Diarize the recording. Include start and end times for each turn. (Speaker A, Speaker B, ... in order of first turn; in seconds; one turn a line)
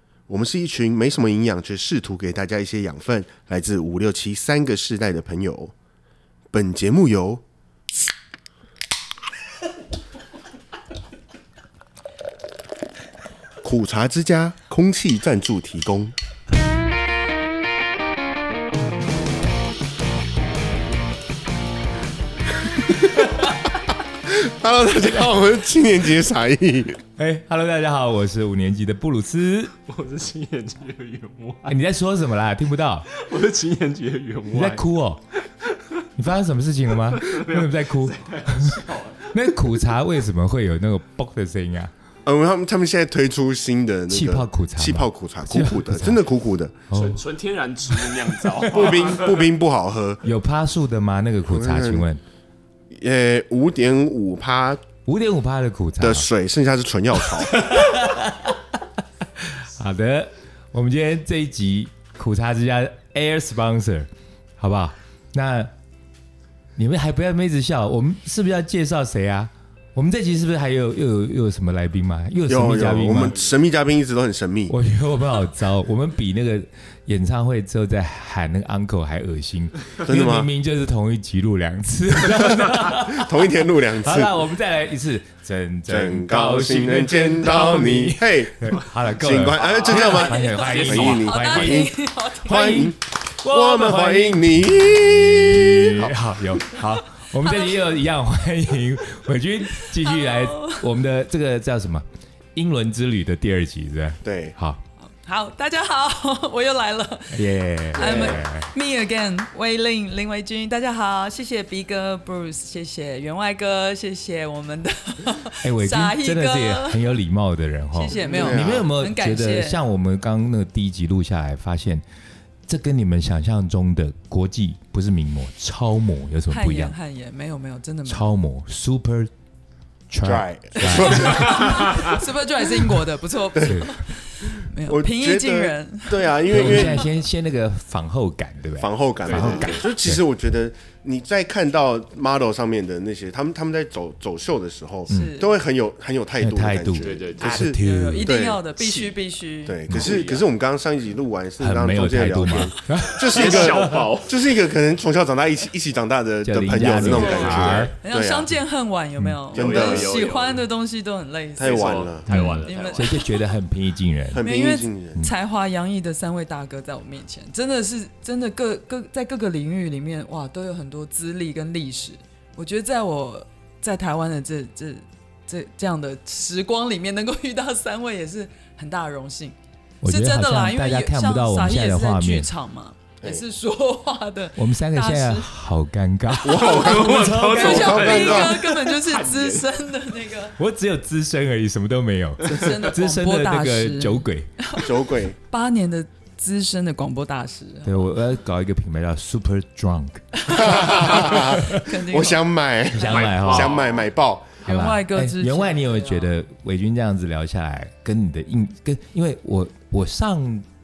Speaker A: 0.3-5.7
Speaker A: 6.5-7.4
Speaker A: 13.6-16.1
Speaker A: 24.2-27.0
Speaker B: 27.2-29.7
Speaker C: 29.9-31.8
Speaker B: 31.6-33.1
Speaker C: 33.1-34.8
Speaker B: 34.5-35.2
Speaker C: 35.6-36.0
Speaker B: 36.1-41.9
Speaker C: 36.9-39.4
Speaker A: 42.2-46.8
Speaker B: 44.1-46.2
Speaker B: 46.9-47.2
Speaker C: 46.9-49.5
Speaker B: 48.1-48.9
Speaker A: 48.6-50.2
Speaker B: 50.2-52.2
Speaker A: 51.5-52.1
Speaker A: 52.9-54.8
Speaker B: 55.0-56.3
Speaker A: 56.0-57.8
Speaker B: 57.4-58.8
Speaker B: 59.4-65.7
Speaker B: 66.8-73.3
Speaker A: 72.5-74.8
Speaker B: 74.7-91.9
Speaker A: 80.0-80.5
Speaker A: 82.8-84.4
Speaker A: 85.9-96.1
Speaker C: 89.5-91.8
Speaker D: 90.1-92.9
Speaker B: 92.5-104.8
Speaker D: 96.9-97.8
Speaker D: 99.7-100.9
Speaker A: 104.2-104.5
Speaker D: 105.0-117.0
Speaker B: 107.3-108.7
Speaker B: 115.6-122.0
Speaker D: 117.9-119.8
Speaker C: 118.1-118.4
Speaker A: 118.2-118.9
Speaker B: 122.7-127.0
Speaker D: 126.5-128.2
Speaker B: 128.1-129.3
Speaker B: 130.1-131.6
Speaker A: 130.2-132.1
Speaker D: 130.8-137.0
Speaker C: 131.4-132.1
Speaker A: 133.5-133.8
Speaker B: 133.6-134.1
Speaker A: 134.8-137.0
Speaker B: 136.5-140.2
Speaker A: 138.8-148.6
Speaker C: 139.2-139.9
Speaker B: 145.1-145.3
Speaker D: 145.1-145.5
Speaker B: 146.4-148.3
Speaker C: 147.0-147.7
Speaker D: 147.5-149.8
Speaker C: 148.8-149.1
Speaker A: 149.7-158.5
Speaker B: 149.9-150.2
Speaker C: 149.9-150.5
Speaker B: 151.6-154.1
Speaker C: 153.2-154.6
Speaker B: 156.4-157.9
Speaker C: 156.8-157.9
Speaker D: 157.0-162.1
Speaker A: 159.5-160.1
Speaker C: 159.5-160.7
Speaker A: 161.6-162.4
Speaker C: 161.6-163.2
Speaker B: 162.3-164.4
Speaker D: 162.6-163.4
Speaker A: 164.3-165.2
Speaker D: 164.4-185.5
Speaker B: 180.0-182.5
Speaker B: 184.6-188.0
Speaker D: 186.3-187.0
Speaker A: 186.4-188.6
Speaker C: 186.6-189.7
Speaker D: 187.5-190.6
Speaker B: 190.6-194.6
Speaker D: 192.4-198.1
Speaker A: 194.7-195.4
Speaker B: 197.8-201.8
Speaker D: 200.3-202.4
Speaker A: 200.5-204.6
Speaker B: 202.9-203.8
Speaker C: 202.9-204.1
Speaker D: 204.6-206.3
Speaker B: 204.6-210.7